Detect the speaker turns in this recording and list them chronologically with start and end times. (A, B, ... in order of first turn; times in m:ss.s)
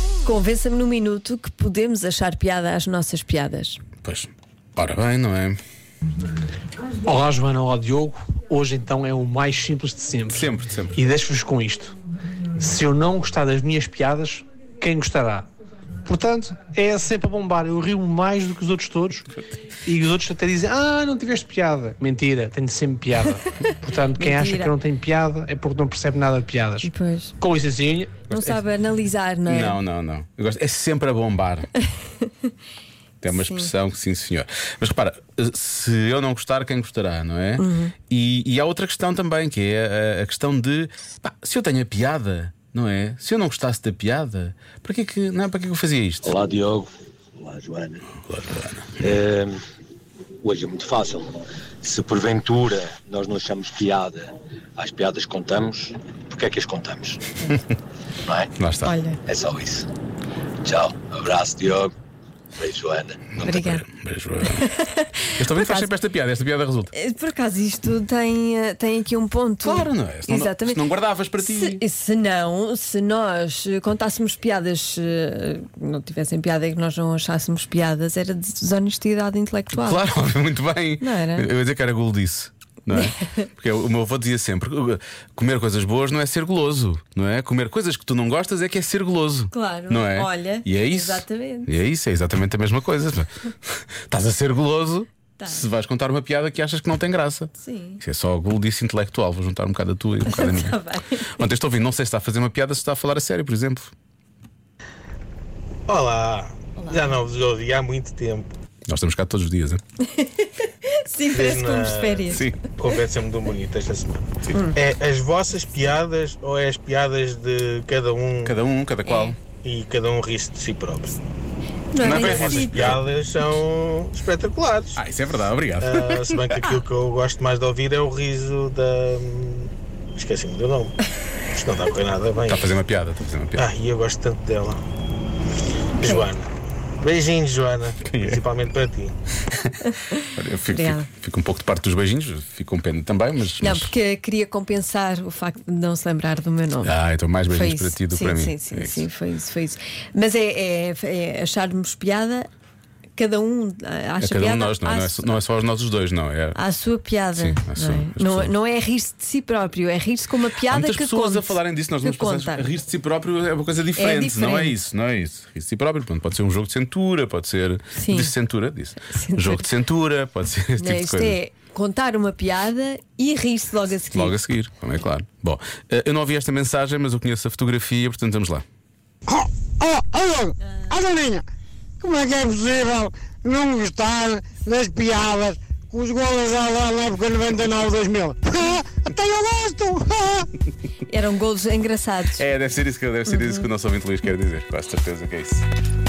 0:00.2-0:03.8 A
0:04.0-0:05.6 B
0:07.0-0:11.9 C
0:10.3-0:11.0 B
0:12.6-0:15.5 C
0:16.0-0:19.2 C
0:19.9-0:26.9 C
0:24.2-0:24.8 A
0:26.8-0:27.3 A
0:27.4-0:28.3 C
0:28.3-0:29.8 A
0:28.3-0:28.6 B
0:29.5-0:31.7 B
0:33.2-0:46.3 B
0:33.3-0:33.7 A
0:37.6-0:37.9 A
0:46.2-0:48.0 D
0:48.3-0:49.1 B
0:49.0-0:49.6 D
0:50.4-0:57.2 D
0:58.2-0:58.5 D
0:58.6-0:59.0 B
0:58.8-0:59.2 A
0:59.2-0:59.9 D
1:00.6-1:01.9 D
1:02.6-1:03.6 D
1:03.4-1:03.8 A
1:03.4-1:04.6 B
1:04.4-1:05.9 A
1:05.4-1:06.9 B
1:06.9-1:10.8 A
1:09.6-1:11.8 B
1:11.4-1:20.0 A
1:19.7-1:40.8 B
1:21.0-1:21.5 A
1:22.9-1:23.5 A
1:29.5-1:31.7 A
1:35.4-1:35.7 A
1:37.6-1:38.0 A
1:40.2-1:41.4 A
1:41.4-1:43.9 B
1:45.9-1:48.5 E
1:46.8-1:47.1 A
1:48.9-1:49.8 B
1:50.1-1:52.5 A
1:51.3-1:58.6 E
1:52.3-1:52.6 B
1:58.4-1:59.4 B
1:59.0-1:59.4 A
1:59.6-2:01.2 E
2:01.9-2:03.0 A
2:02.0-2:03.0 B
2:02.0-2:05.0 E
2:05.0-2:06.7 B
2:05.8-2:11.0 E
2:11.5-2:12.8 E
2:12.5-2:13.6 B
2:13.6-2:14.8 E
2:16.0-2:16.5 E
2:16.0-2:16.3 A
2:17.0-2:19.1 E
2:18.1-2:18.4 B
2:20.3-2:23.9 B
2:20.7-2:21.1 A
2:23.6-2:27.0 A
2:26.8-2:29.0 B
2:27.5-2:32.5 A
2:33.2-2:35.3 A
2:34.2-2:36.6 B
2:36.6-2:42.7 A
2:37.4-2:38.5 B
2:40.7-2:51.4 B
2:44.0-2:44.8 A
2:47.9-2:48.3 A
2:49.0-2:49.7 A
2:50.8-2:54.4 A
2:54.1-2:58.6 B
2:59.3-3:01.4 F
3:00.7-3:00.9 A
3:02.0-3:10.5 F
3:11.1-3:12.4 A
3:12.4-3:15.7 B
3:13.3-3:13.7 A